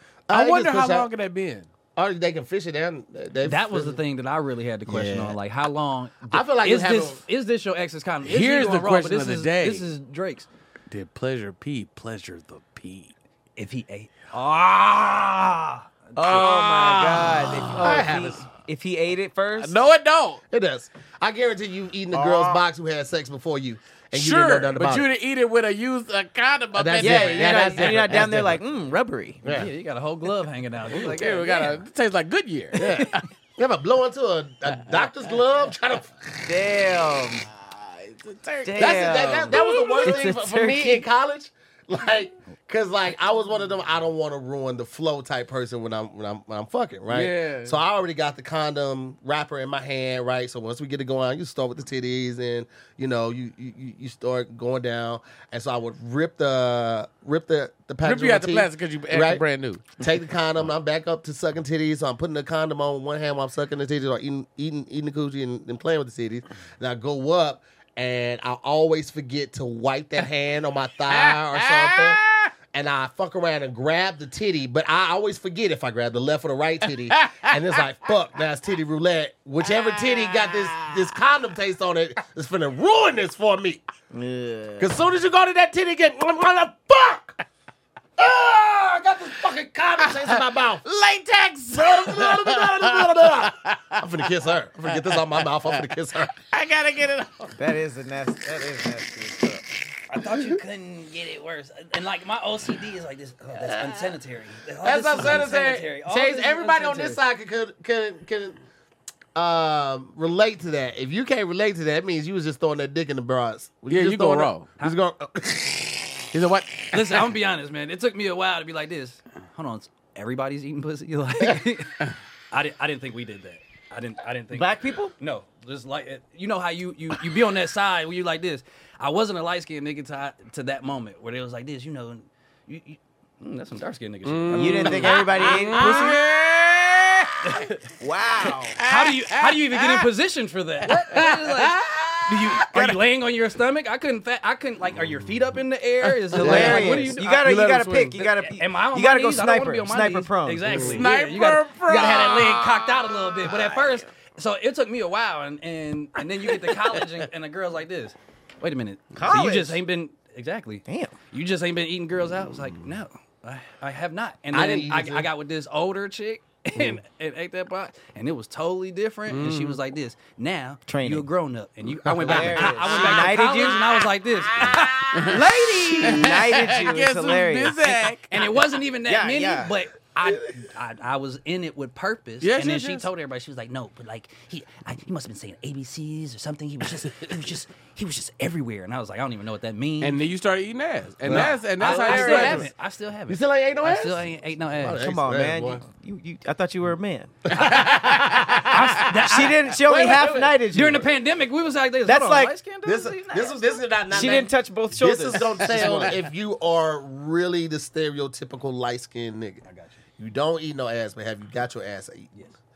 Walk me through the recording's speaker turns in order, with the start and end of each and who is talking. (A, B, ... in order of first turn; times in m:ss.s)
0:00.3-0:01.1 A
0:00.3-0:01.7 B
0:02.0-0:04.0 A
0:03.4-0:10.5 C
0:04.9-0:05.4 A
0:06.3-0:07.2 A
0:08.2-0:09.8 B
0:10.9-0:13.1 B
0:13.6-0:15.9 C
0:16.2-0:19.8 D
0:16.2-0:18.1 B
0:17.7-0:18.4 A
0:19.6-0:20.4 B
0:20.5-0:25.1 A
0:22.1-0:22.6 D
0:24.1-0:28.3 B
0:26.8-0:28.6 A
0:27.0-0:29.4 D
0:29.4-0:29.7 A
0:29.4-0:31.8 C
0:31.0-0:33.3 B
0:32.8-0:36.5 A
0:36.5-0:37.4 D
0:37.5-0:40.2 B
0:38.6-0:41.0 D
0:38.8-0:59.4 A
0:47.1-0:47.8 B
0:58.0-1:00.0 B
1:00.0-1:12.2 A
1:11.1-1:12.5 B
1:12.7-1:23.8 A
1:19.7-1:21.0 B
1:24.1-1:24.9 D
1:24.8-1:27.4 A
1:28.2-1:30.8 A
1:30.8-1:34.0 B
1:31.7-1:36.4 A
1:34.9-1:35.8 B
1:36.4-1:37.6 B
1:37.6-1:39.7 D
1:40.1-1:47.2 C
1:44.8-1:48.6 A
1:49.4-1:56.3 A
1:53.9-1:54.7 B
1:56.3-1:57.2 B
1:56.9-2:16.1 C
2:04.5-2:05.1 D
2:14.2-2:17.7 B
2:14.5-2:16.2 D
2:17.4-2:17.8 C
2:18.0-2:18.8 D
2:18.7-2:20.1 B
2:18.8-2:27.5 C
2:20.8-2:23.0 B
2:26.3-2:28.2 B
2:26.4-2:30.9 D
2:26.4-2:26.9 A
2:28.4-2:56.4 C
2:30.7-2:31.0 A
2:30.7-2:33.6 B
2:39.2-2:39.8 D
2:40.9-2:41.2 D
2:44.5-2:45.3 A
2:49.3-2:49.8 B
2:50.9-2:51.3 D
2:52.2-2:53.9 D
2:52.4-2:52.9 A
2:54.6-2:55.5 B
2:55.7-2:58.1 D
2:56.0-2:58.3 B
2:58.3-3:10.2 C
2:59.1-2:59.8 D
3:02.4-3:03.1 B
3:10.0-3:12.7 B
3:11.3-3:12.7 A
3:11.3-3:15.0 C
3:11.8-3:12.7 D
3:13.3-3:15.8 A
3:14.9-3:17.5 D
3:17.5-3:19.2 A
3:17.6-3:17.9 C
3:18.7-3:20.2 C
3:19.1-3:21.1 D
3:19.8-3:20.6 A
3:20.7-3:23.8 C
3:22.0-3:22.5 D
3:22.8-3:29.6 A
3:24.1-3:26.2 D
3:29.6-3:30.0 C
3:30.2-3:32.3 A